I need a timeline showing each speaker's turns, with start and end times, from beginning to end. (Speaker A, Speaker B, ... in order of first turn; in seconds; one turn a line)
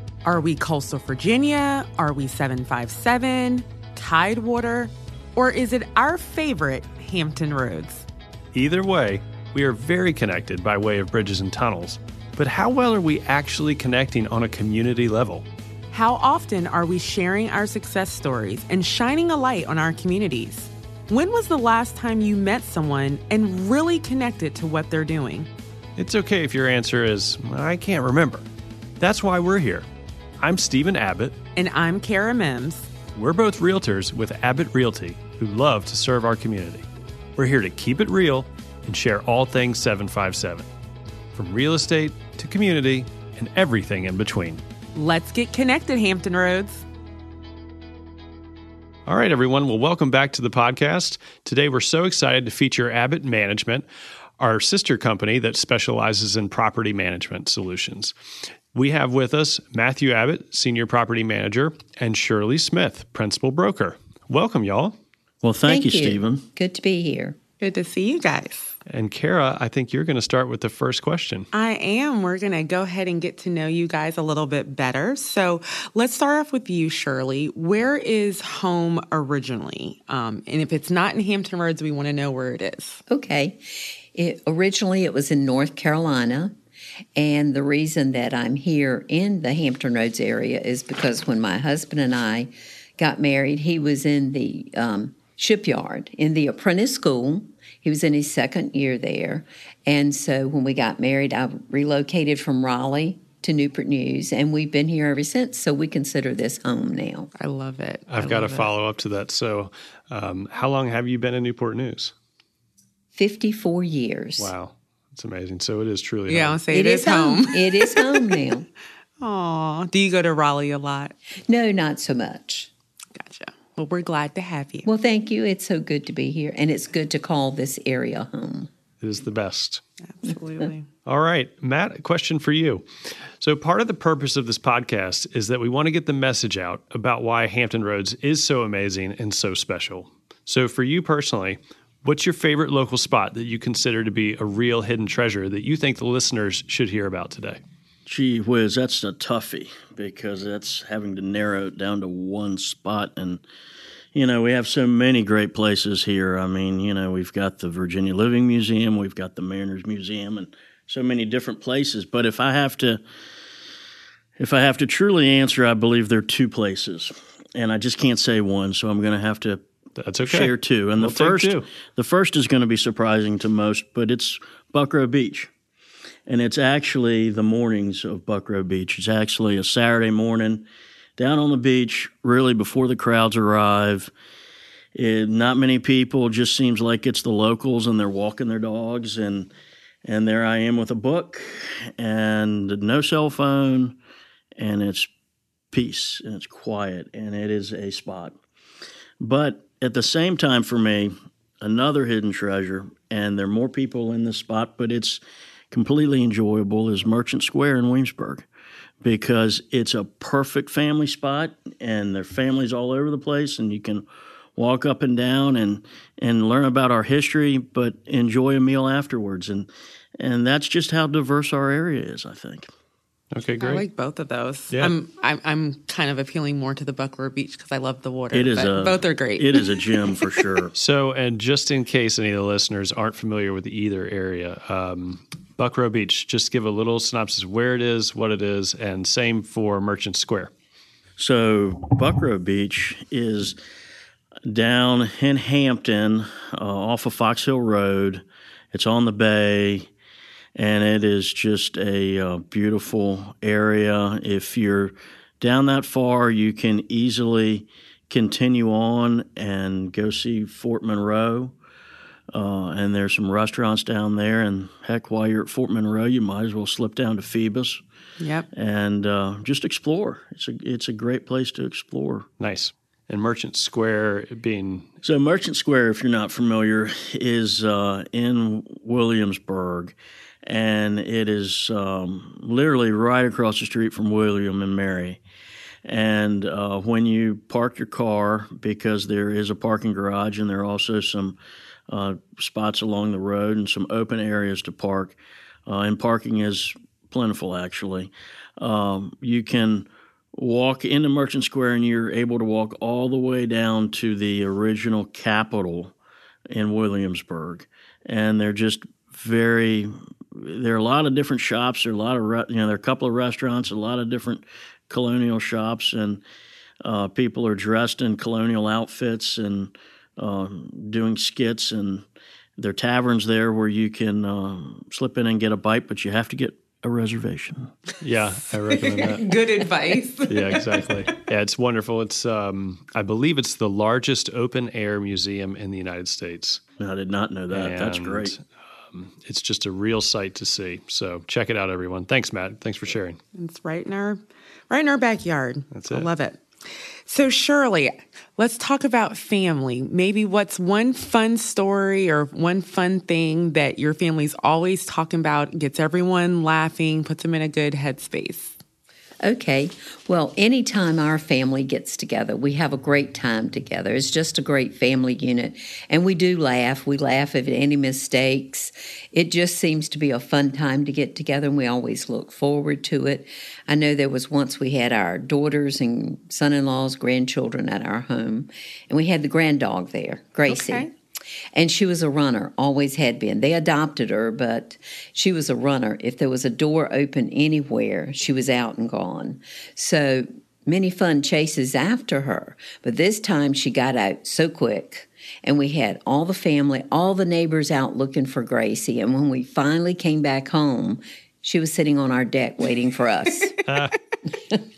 Speaker A: 0.2-8.1
Speaker B: 8.5-15.4
Speaker A: 15.9-25.5
Speaker B: 26.0-28.5
Speaker B: 29.0-29.9
Speaker B: 30.4-31.4
Speaker A: 31.6-32.9
Speaker B: 33.1-40.7
Speaker B: 41.3-44.6
Speaker A: 44.9-46.8
Speaker B: 49.0-53.9
Speaker B: 54.4-58.1
Speaker B: 58.7-65.0
Speaker C: 65.4-66.4
Speaker D: 65.7-67.4
Speaker A: 67.6-68.7
Speaker B: 68.8-71.5
Speaker A: 71.5-83.0
Speaker D: 83.1-86.5
Speaker D: 87.2-107.3
Speaker A: 107.3-108.7
Speaker B: 108.1-112.1
Speaker D: 113.1-114.5
Speaker B: 114.4-116.6
Speaker A: 116.3-118.4
Speaker D: 116.7-118.7
Speaker A: 119.2-121.1
Speaker D: 121.4-122.7
Speaker A: 123.1-124.9
Speaker D: 124.8-128.7
Speaker B: 129.0-129.8
Speaker A: 130.1-130.9
Speaker B: 131.1-147.6
Speaker C: 148.1-153.4
Speaker C: 154.1-163.0
Speaker C: 164.4-169.6
Speaker B: 169.9-171.7
Speaker C: 170.2-175.5
Speaker C: 176.2-180.7
Speaker C: 181.2-184.1
Speaker C: 184.9-189.5
Speaker C: 190.0-193.9
Speaker C: 194.6-195.1
Speaker C: 195.7-198.4
Speaker C: 199.2-208.5
Speaker C: 209.0-214.0
Speaker C: 214.6-222.7
Speaker B: 223.3-223.8
Speaker A: 223.6-230.4
Speaker C: 228.3-230.7
Speaker B: 230.7-240.5
Speaker C: 241.2-243.6
Speaker C: 244.4-249.9
Speaker C: 250.5-261.5
Speaker C: 262.3-267.8
Speaker A: 268.2-268.5
Speaker C: 268.5-272.3
Speaker B: 272.4-274.9
Speaker C: 275.0-285.2
Speaker C: 285.8-291.4
Speaker C: 291.9-305.9
Speaker C: 306.5-316.2
Speaker C: 316.8-322.1
Speaker C: 322.6-327.7
Speaker B: 328.0-329.3
Speaker A: 328.9-330.7
Speaker B: 330.3-336.6
Speaker C: 336.8-338.3
Speaker B: 337.5-343.2
Speaker A: 343.3-358.5
Speaker B: 345.7-346.1
Speaker D: 359.2-380.9
Speaker A: 380.5-380.9
Speaker D: 381.5-403.6
Speaker B: 403.6-403.9